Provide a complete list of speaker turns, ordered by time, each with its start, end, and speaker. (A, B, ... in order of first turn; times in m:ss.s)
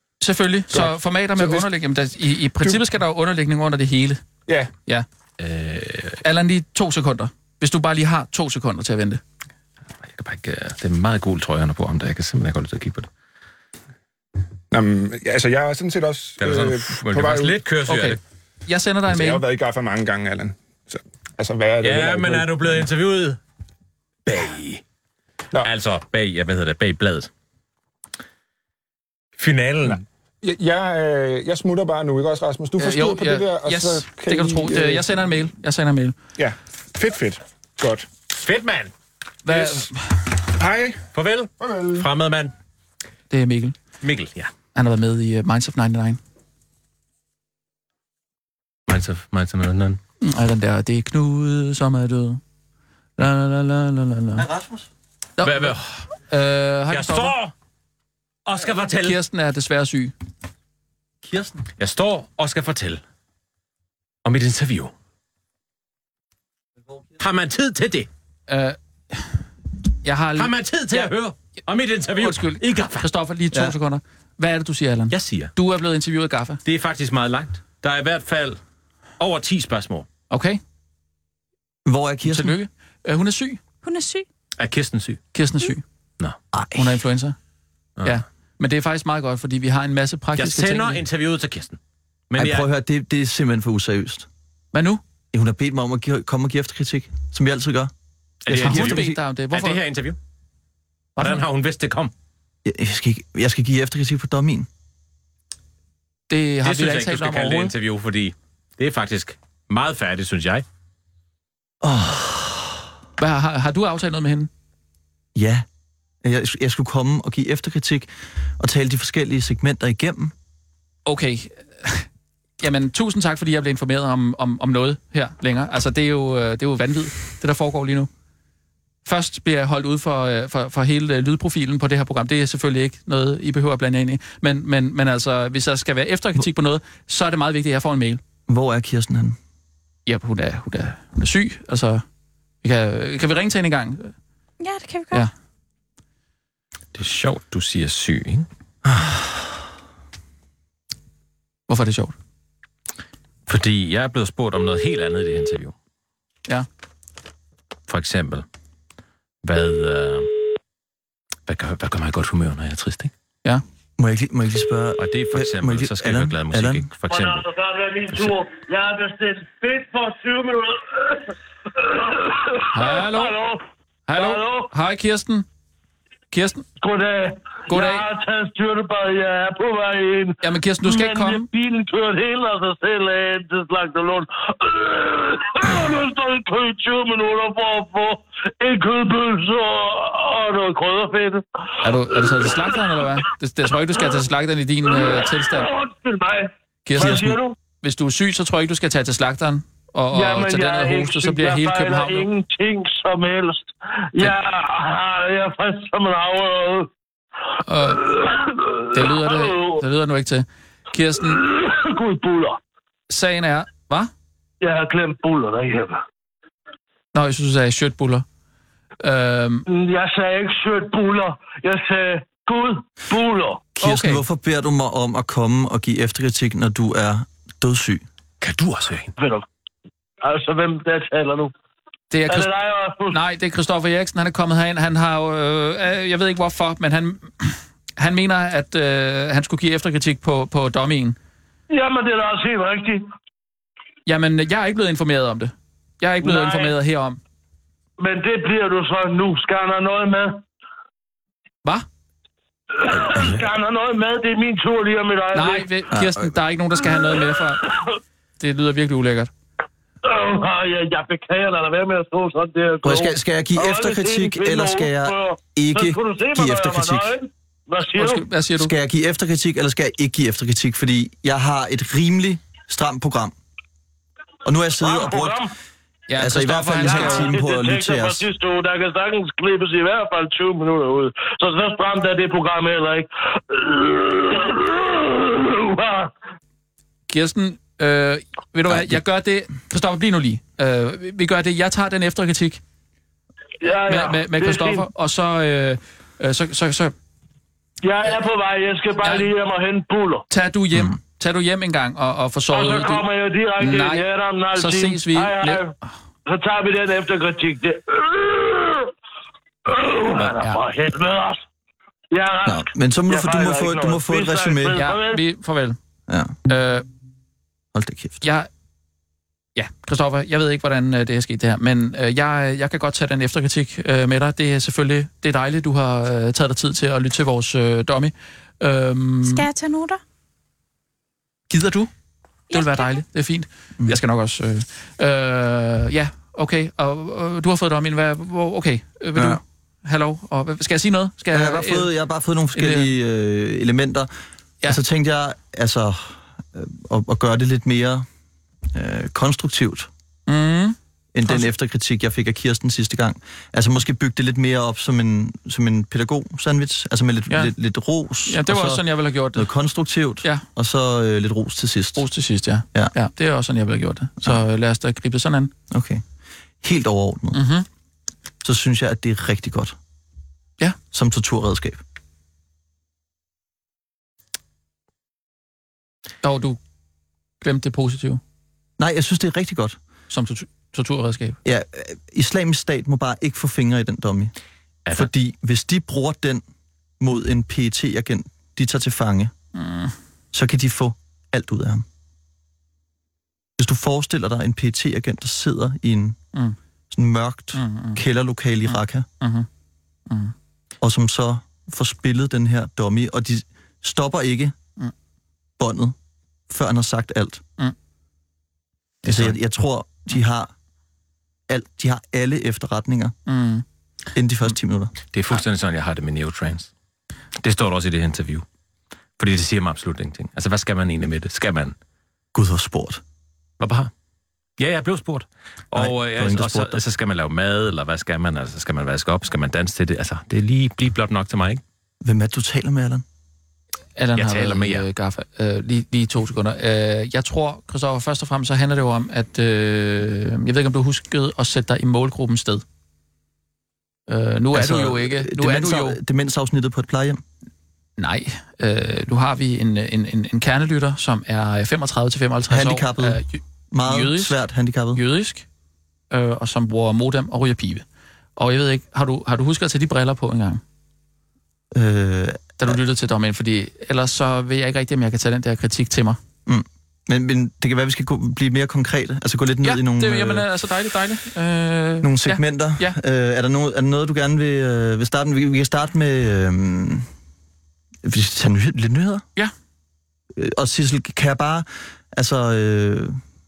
0:00.2-0:04.2 A
0:00.7-0:01.6 B
0:05.4-0:06.2 C
0:06.2-0:09.2 A
0:10.0-0:13.1 C
0:14.7-0:17.6 B
0:16.4-0:18.2 C
0:17.9-0:19.4 A
0:19.1-0:22.9 B
0:21.8-0:23.4 C
0:24.2-0:24.8 C
0:25.6-0:27.3 C
0:29.4-0:30.0 C
0:29.8-0:35.3 B
0:32.8-0:36.1 A
0:36.4-0:38.1 B
0:38.3-0:38.9 C
0:39.4-0:40.2 A
0:40.6-0:41.0 B
0:41.1-0:42.5 C
0:41.6-0:42.1 B
0:43.3-0:43.7 A
0:44.0-0:44.5 C
0:44.7-0:46.2 A
0:48.9-0:50.0 C
0:50.2-0:52.4 A
0:53.2-0:54.4 A
0:54.4-0:54.9 D
0:55.4-0:55.8 A
0:55.4-0:55.9 C
0:56.3-0:57.3 A
0:56.9-0:57.5 C
0:58.4-0:59.2 C
0:58.9-1:00.1 A
1:01.2-1:01.6 D
1:01.8-1:03.0 C
1:04.2-1:04.9 C
1:07.2-1:08.1 C
1:08.5-1:09.2 A
1:10.0-1:11.1 A
1:10.4-1:13.0 C
1:12.2-1:16.6 A
1:15.1-1:15.5 C
1:16.6-1:18.6 C
1:19.2-1:20.0 C
1:20.3-1:20.6 A
1:21.8-1:22.6 D
1:22.2-1:23.6 A
1:23.8-1:24.2 E
1:24.6-1:25.2 C
1:25.3-1:25.8 A
1:26.5-1:27.0 D
1:26.7-1:27.4 A
1:28.0-1:31.0 A
1:30.4-1:31.8 C
1:32.3-1:32.7 C
1:32.4-1:34.3 D
1:34.7-1:35.0 A
1:35.3-1:37.9 D
1:38.4-1:40.2 C
1:38.5-1:39.2 D
1:38.5-1:39.8 A
1:41.2-1:41.4 A
1:41.2-1:42.1 C
1:42.6-1:44.7 D
1:46.3-1:47.7 A
1:46.6-1:50.6 C
1:51.8-1:52.7 D
1:53.2-1:54.5 A
1:55.3-1:55.6 D
1:56.2-2:00.3 D
2:01.0-2:02.0 A
2:02.6-2:08.1 A
2:09.0-2:18.2 A
2:18.5-2:19.4 D
2:20.0-2:22.0 A
2:22.6-2:24.1 A
2:24.6-2:25.3 E
2:26.9-2:28.5 C
2:28.8-2:29.2 D
2:31.7-2:32.1 A
2:33.5-2:35.7 C
2:37.9-2:38.4 C
2:39.4-2:40.3 C
2:41.5-2:43.1 C
2:44.0-2:46.9 D
2:45.0-2:47.5 C
2:47.1-2:54.7 F
2:52.7-2:53.4 A
2:54.1-2:55.4 A
2:56.3-2:56.6 A
2:56.8-3:11.4 F
2:57.7-2:58.0 A
3:00.4-3:01.5 A
3:11.8-3:15.7 A
3:12.2-3:13.0 F
3:14.8-3:17.6 F
3:16.8-3:22.3 A
3:17.0-3:17.3 D
3:20.1-3:26.9 F
3:27.6-3:28.0 A
3:27.8-3:29.8 F
3:28.9-3:31.4 A
3:31.3-3:32.6 F
3:33.1-3:34.1 A
3:34.6-3:36.0 F
3:37.1-3:38.2 A
3:39.0-3:39.6 A
3:39.7-3:43.7 F
3:43.7-3:48.0 D
3:43.8-3:44.2 A
3:48.4-3:49.1 C
3:49.2-3:49.4 F
3:50.2-3:51.5 F
3:52.1-3:52.5 A
3:52.3-3:53.2 F
3:53.1-4:01.2 A
4:01.7-4:03.0 F
4:04.0-4:07.2 A
4:06.2-4:06.7 F
4:08.0-4:10.4 F
4:12.8-4:15.7 F
4:15.3-4:17.7 A
4:15.9-4:16.3 D
4:16.9-4:17.9 F
4:18.4-4:19.3 A
4:20.0-4:28.2 F
4:22.8-4:27.1 D
4:27.9-4:28.7 A
4:28.6-4:33.3 D
4:34.4-4:35.4 D
4:34.8-4:35.5 F
4:36.1-4:37.3 A
4:36.2-4:38.2 D
4:36.8-4:46.1 F
4:47.1-4:52.6 A
4:48.7-4:49.0 D
4:53.6-4:54.9 F
4:53.9-4:56.9 A
4:57.8-5:00.2 F
4:59.0-4:59.3 A
5:00.3-5:03.0 A
5:02.5-5:05.7 F
5:03.6-5:04.0 A
5:04.5-5:05.6 A
5:06.2-5:08.9 F
5:09.6-5:11.4 F
5:12.1-5:15.2 F
5:12.4-5:14.8 D
5:14.8-5:15.8 A
5:16.1-5:16.4 D
5:16.5-5:16.8 A
5:17.7-5:18.2 D
5:18.2-5:18.5 A
5:19.6-5:29.4 A
5:29.2-5:30.0 E
5:31.5-5:31.9 A
5:32.5-5:33.0 E
5:32.5-5:41.9 A
5:39.1-5:39.4 D
5:41.3-5:44.1 D
5:42.5-5:42.9 A
5:44.6-5:48.0 D
5:48.7-5:49.9 D
5:50.3-5:51.5 A
5:51.1-6:02.0 D
5:58.2-5:59.5 A
6:02.0-6:05.5 A
6:05.7-6:06.0 D
6:06.6-6:07.4 D
6:07.3-6:07.6 A
6:08.4-6:09.8 D
6:10.9-6:11.8 D
6:16.2-6:16.6 A
6:17.4-6:18.2 A
6:18.8-6:19.8 D
6:20.1-6:21.4 A
6:21.4-6:24.3 D
6:24.9-6:26.4 D
6:27.0-6:29.3 D
6:29.5-6:29.9 A
6:30.3-6:31.8 D
6:33.6-6:36.2 D
6:36.9-6:39.1 D
6:37.5-6:38.0 A
6:38.7-6:39.5 A
6:40.1-6:40.3 A
6:40.8-6:44.5 D
6:45.6-6:45.9 D
6:46.5-6:47.4 D
6:49.0-6:50.5 D
6:49.0-6:49.3 C
6:51.5-6:53.1 D
6:53.3-6:53.6 A
6:54.1-6:54.9 D
6:55.1-6:56.7 C
6:57.4-6:58.4 C
6:59.2-7:01.7 C
7:02.3-7:03.0 D
7:03.6-7:03.9 C
7:04.6-7:11.6 C
7:05.7-7:06.8 D
7:12.0-7:13.0 D
7:14.0-7:22.6 A
7:14.2-7:14.8 C
7:24.1-7:26.0 A
7:24.5-7:27.2 D
7:28.0-7:34.4 A
7:32.5-7:35.0 D
7:34.9-7:35.4 A
7:36.1-7:37.8 A
7:38.4-7:40.6 A
7:41.7-7:42.8 D
7:42.6-7:46.2 A
7:46.4-7:50.4 D
7:49.6-7:53.0 A
7:52.0-7:57.1 D
7:58.0-7:59.2 D
8:00.3-8:03.2 D